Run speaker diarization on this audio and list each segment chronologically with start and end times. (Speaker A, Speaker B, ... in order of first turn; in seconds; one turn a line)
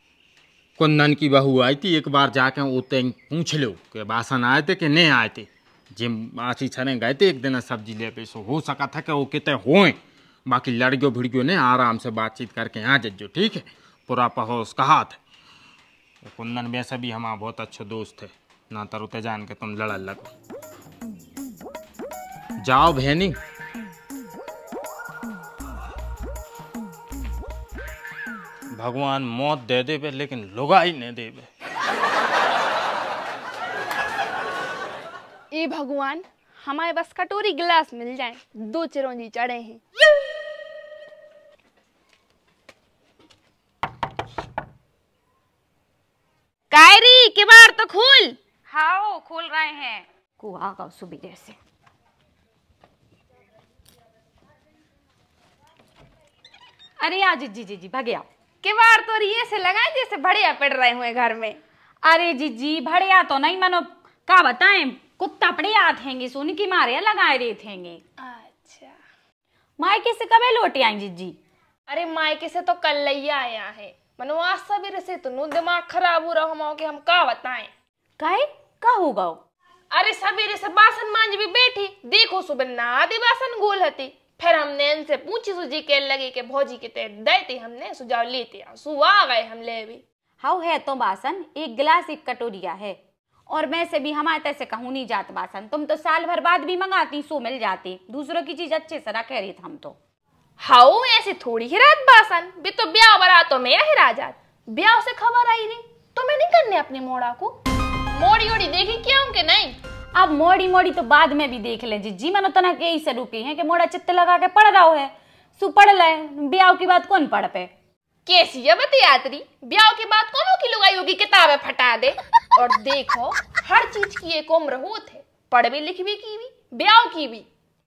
Speaker A: 0.8-9.9
Speaker A: 10.5-15.2
Speaker A: 16.2-20.3
Speaker A: 22.6-23.4
Speaker A: 28.7-31.5
Speaker B: 35.5-39.8
Speaker B: 46.7-48.4
Speaker C: 48.7-51.6
Speaker C: 57.0-58.2
Speaker B: 58.6-61.6
Speaker C: 62.0-68.0
Speaker B: 68.2-69.0
Speaker C: 69.8-71.3
Speaker B: 71.9-77.7
Speaker C: 78.2-79.4
Speaker B: 79.9-90.0
Speaker C: 90.4-93.0
Speaker C: 93.5-100.0
Speaker B: 100.6-107.5
Speaker B: 108.1-109.8
Speaker C: 110.2-117.7
Speaker B: 118.2-127.5